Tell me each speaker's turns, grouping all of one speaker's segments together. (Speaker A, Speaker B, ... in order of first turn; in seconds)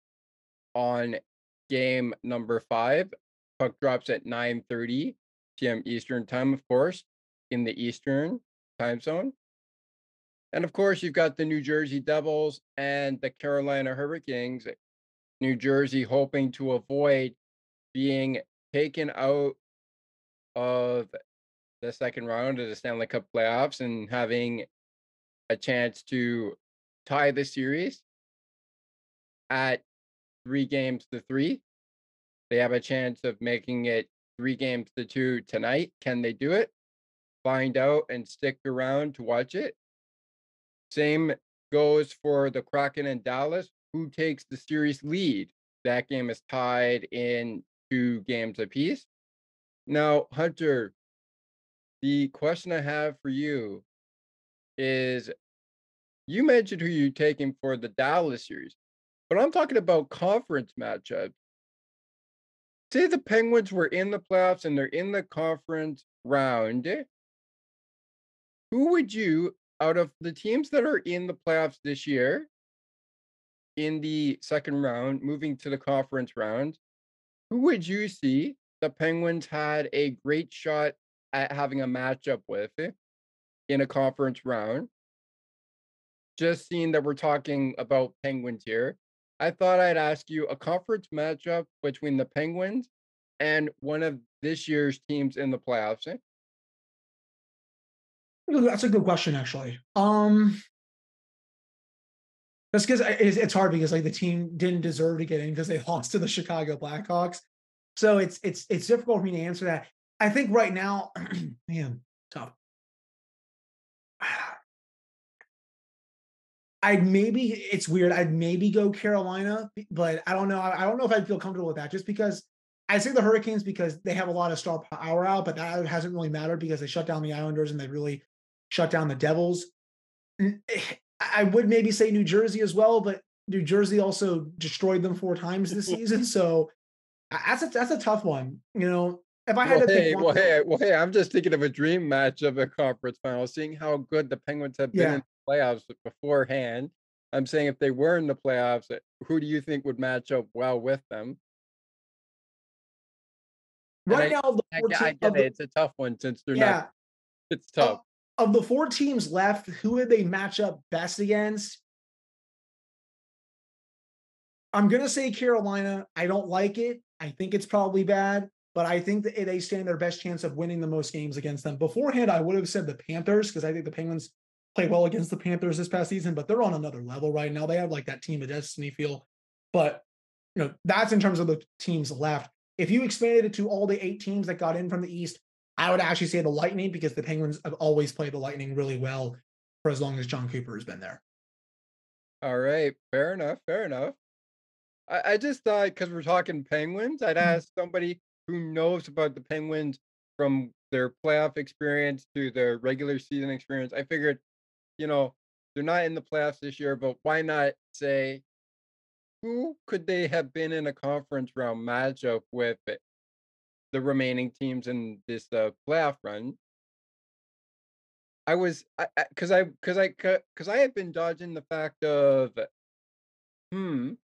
Speaker A: 0.7-9.3, 10.5-14.7, 15.4-17.4, 17.9-19.6, 20.6-21.1, 21.8-24.7, 25.5-28.0, 29.5-29.8, 30.4-31.6, 32.5-36.7, 37.4-39.8, 40.9-49.1, 49.9-50.9, 52.0-53.8, 54.8-55.3, 56.3-58.8, 59.3-61.3, 62.9-67.0, 68.7-72.5, 73.8-76.8, 77.5-82.9, 83.7-84.9, 86.4-92.9, 93.4-96.2, 139.6-151.4, 154.1-156.8, 157.5-158.0, 192.4-194.2, 195.1-204.4, 205.0-208.4, 209.4-213.0, 213.9-216.6, 218.5-222.7, 223.7-224.2
Speaker B: 98.5-100.6, 102.7-107.4, 108.0-112.5, 114.2-114.6, 116.8-129.7, 130.4-136.7, 137.3-140.5, 144.9-145.2, 154.1-155.5, 156.5-156.9, 157.8-161.8, 164.7-180.1, 180.6-191.2